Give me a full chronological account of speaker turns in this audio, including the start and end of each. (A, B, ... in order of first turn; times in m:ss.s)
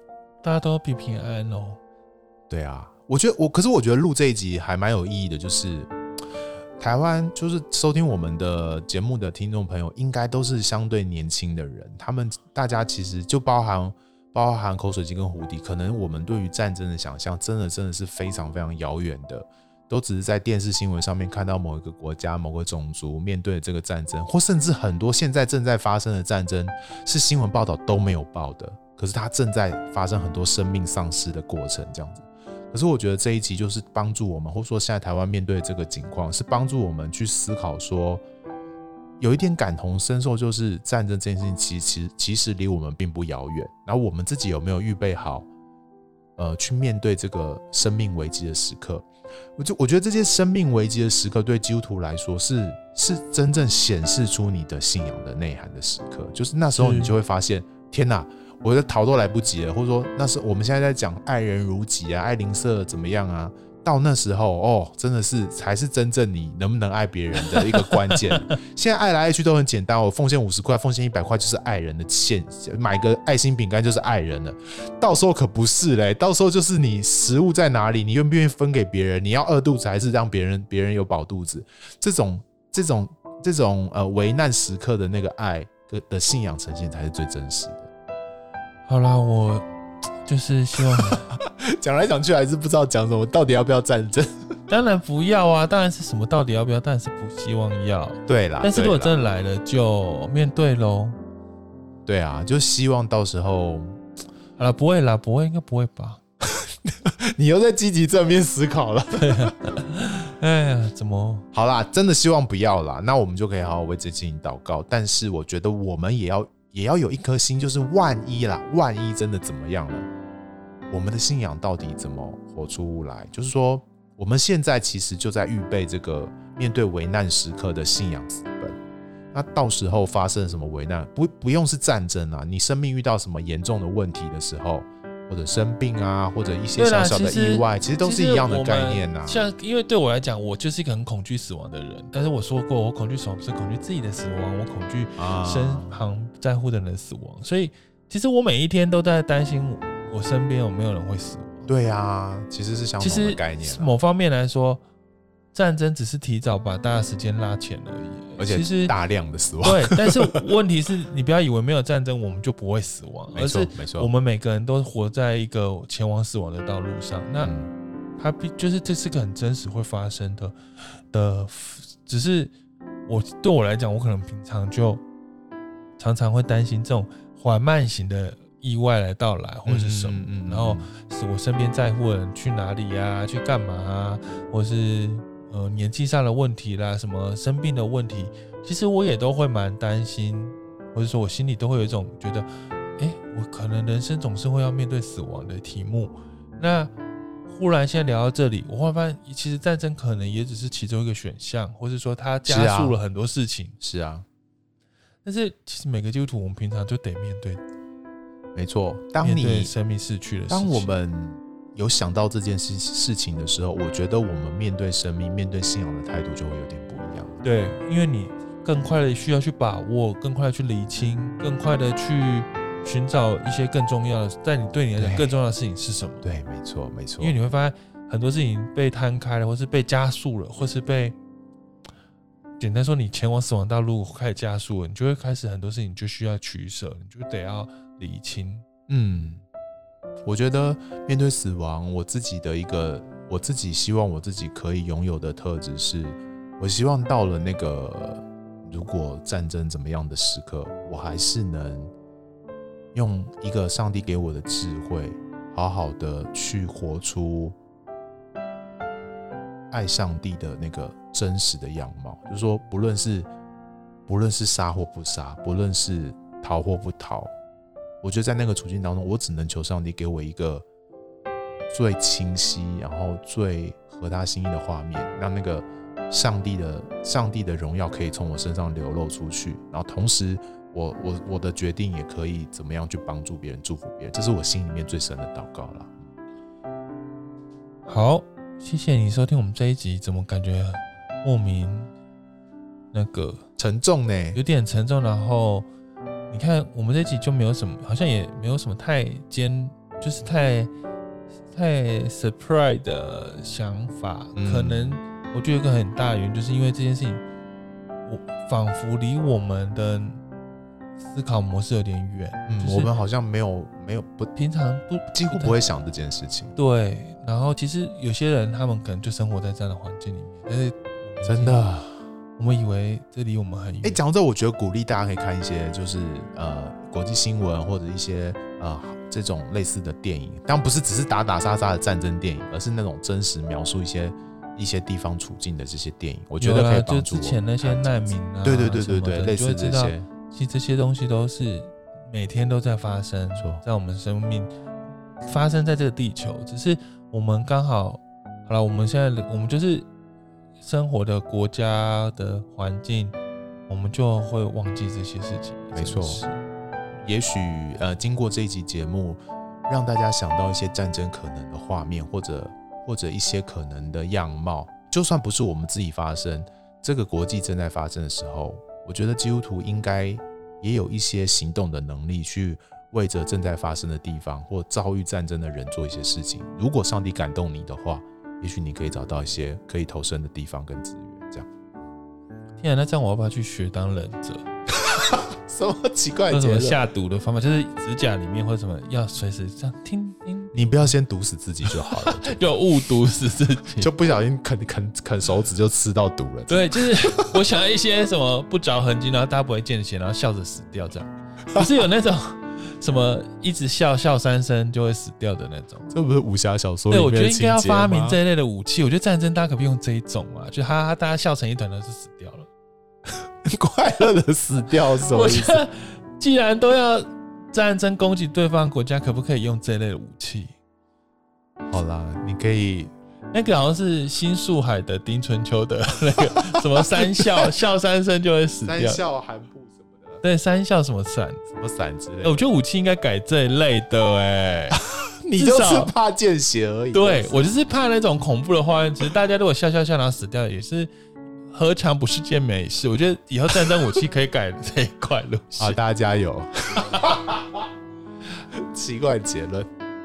0:00.4-0:01.8 A
0:02.5-0:05.9 B
0:06.8-0:38.2 B
0:39.2-0:45.5 B
0:46.4-1:27.9 B
0:56.8-0:57.1 A
1:07.9-1:08.2 A
1:28.9-1:29.6 A
1:30.2-1:31.3 A
1:30.9-1:34.3 B
1:34.7-1:41.2 A
1:38.3-1:39.1 B
1:42.1-1:44.0 B
1:44.6-1:46.2 A
1:46.5-1:49.6 B
1:49.1-1:51.4 A
1:51.5-2:00.1 B
2:00.9-2:08.8 B
2:09.3-2:19.4 B
2:16.8-2:31.7 A
2:25.2-2:26.0 B
2:31.7-2:33.9 B
2:33.0-2:34.8 A
2:35.5-2:38.9 A
2:38.4-2:40.4 B
2:39.6-2:47.5 A
2:43.3-2:44.1 B
2:47.4-2:47.7 B
2:48.2-2:52.5 A
2:53.1-2:55.0 A
2:56.0-3:12.4 A
2:59.6-3:00.9 B
3:13.0-3:16.9 A
3:17.5-3:23.8 A
3:22.4-3:23.0 B
3:23.8-3:24.3 B
3:25.2-3:27.6 A
3:28.6-3:29.7 B
3:29.2-3:30.9 A
3:30.5-3:37.4 B
3:37.4-3:46.3 A
3:45.0-3:45.4 B
3:46.2-3:47.4 B
3:47.2-3:51.2 A
3:52.6-3:58.6 A
3:58.9-3:59.4 B
4:00.2-4:11.9 B
4:12.9-4:17.6 B
4:19.7-4:23.3 B
4:24.1-4:27.3 B
4:28.0-4:30.7 B
4:31.7-4:46.0 B
4:47.9-4:51.9 A
4:52.9-4:53.4 A
4:53.6-4:54.4 B
4:54.3-4:55.7 A
4:56.3-5:00.7 A
5:01.5-5:07.2 A
5:04.4-5:05.0 B
5:08.0-5:10.2 A
5:11.0-5:12.9 A
5:12.4-5:14.3 B
5:14.4-5:15.6 A
5:15.1-5:16.6 B
5:16.6-5:21.6 A
5:21.2-5:22.0 B
5:22.4-5:24.0 A
5:23.8-5:40.1 B
5:36.4-5:44.5 A
5:45.2-5:49.9 A
5:50.6-5:53.2 A
5:53.7-5:56.4 A
5:55.7-5:56.2 B
5:57.0-6:21.5 B
6:22.6-6:24.4 A
6:24.7-6:26.8 B
6:26.3-6:30.6 A
6:30.5-6:32.4 B
6:31.9-6:33.9 A
6:33.8-6:37.4 B
6:36.5-6:45.9 A
6:45.9-6:48.2 B
6:46.9-6:52.5 A
6:53.4-6:55.6 B
6:55.0-7:00.5 A
7:01.7-7:02.9 B
7:03.3-7:09.0 A
7:06.3-7:07.4 B
7:08.7-7:10.2 B
7:10.2-7:11.4 A
7:11.5-7:12.5 B
7:12.2-7:14.8 A
7:14.8-7:17.4 B
7:15.4-7:15.9 A
7:16.9-7:20.9 A
7:21.5-7:25.8 A
7:25.6-7:27.7 B
7:28.5-7:29.7 B